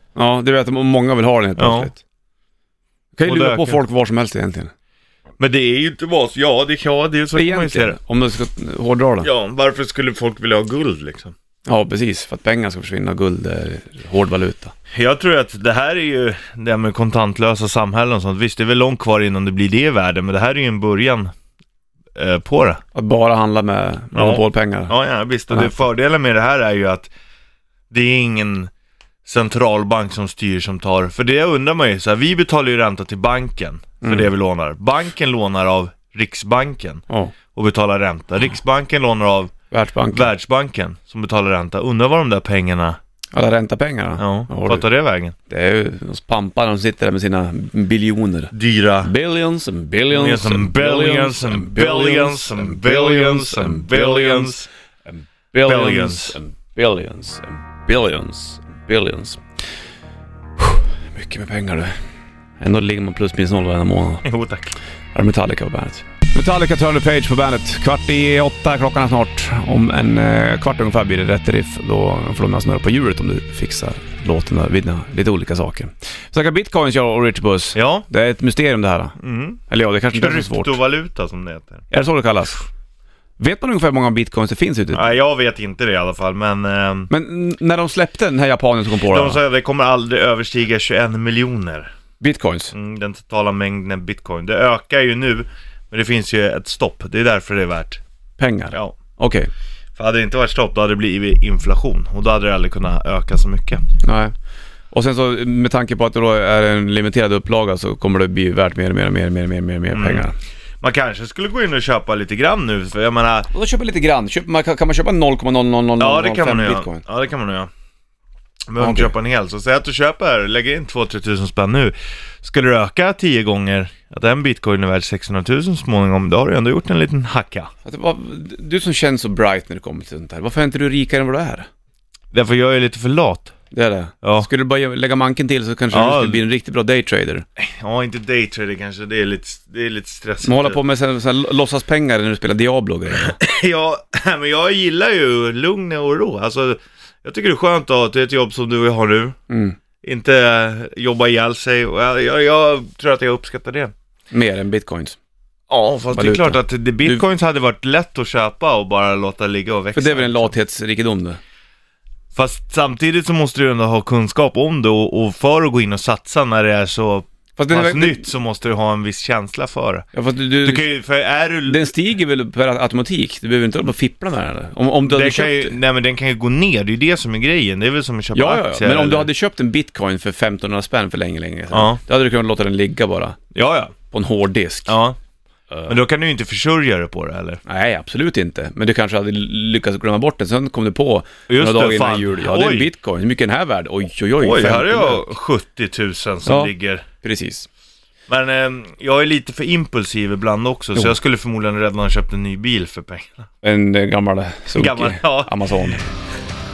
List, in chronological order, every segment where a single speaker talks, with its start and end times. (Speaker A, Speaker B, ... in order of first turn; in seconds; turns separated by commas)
Speaker A: 0.1-2.0, Speaker B: 1.6-1.9, Speaker A: 3.1-4.7, Speaker B: 3.2-3.8, Speaker B: 5.4-8.0, Speaker A: 7.3-9.3, Speaker B: 9.2-11.3, Speaker A: 11.7-14.7, Speaker B: 14.9-21.3, Speaker B: 22.1-22.8, Speaker A: 22.9-24.9, Speaker B: 24.1-27.1, Speaker A: 25.5-25.8, Speaker B: 27.9-28.7, Speaker B: 29.2-37.0, Speaker A: 34.0-34.3, Speaker A: 37.1-37.3, Speaker B: 37.5-39.5, Speaker A: 39.7-40.3, Speaker B: 40.1-43.0, Speaker A: 43.3-44.8, Speaker B: 44.2-45.3, Speaker A: 45.5-54.6, Speaker B: 48.5-49.1, Speaker B: 50.1-54.7, Speaker A: 55.1-59.4, Speaker B: 55.6-56.4, Speaker A: 60.6-61.9, Speaker A: 62.6-64.2, Speaker B: 64.2-64.8, Speaker A: 65.1-79.2, Speaker B: 77.7-78.0, Speaker B: 79.2-79.6, Speaker A: 79.7-80.8, Speaker B: 80.1-81.8, Speaker A: 81.9-82.7, Speaker A: 83.4-85.0, Speaker B: 84.9-87.1, Speaker A: 87.1-89.4, Speaker B: 89.0-91.9, Speaker A: 92.2-92.7, Speaker B: 92.7-98.0, Speaker A: 98.4-99.5, Speaker B: 100.0-103.8, Speaker A: 104.0-104.3, Speaker A: 104.9-110.3, Speaker B: 109.9-110.3, Speaker B: 110.8-113.5, Speaker A: 113.5-117.0, Speaker B: 116.0-117.7, Speaker B: 118.7-127.7, Speaker A: 118.8-119.1, Speaker A: 127.8-131.7, Speaker B: 132.3-133.5, Speaker A: 133.7-137.4, Speaker B: 135.9-136.4, Speaker B: 137.6-140.8, Speaker A: 140.4-143.3, Speaker B: 143.2-149.3, Speaker A: 149.5-149.8, Speaker B: 150.0-153.9, Speaker A: 154.3-155.2, Speaker B: 155.7-160.5, Speaker A: 156.1-157.2, Speaker A: 159.9-161.4, Speaker B: 162.3-170.1, Speaker A: 167.6-168.3, Speaker A: 170.1-170.9, Speaker B: 170.6-171.9, Speaker A: 171.7-175.7, Speaker B: 175.1-179.3, Speaker A: 178.3-183.4, Speaker B: 181.7-182.0, Speaker B: 183.5-183.9, Speaker A: 184.1-184.9, Speaker B: 184.9-185.2, Speaker B: 185.8-187.6, Speaker A: 187.7-195.2, Speaker B: 191.5-192.9, Speaker B: 194.4-197.0, Speaker A: 196.4-197.7, Speaker B: 198.3-203.4, Speaker A: 203.6-206.0, Speaker B: 204.7-206.0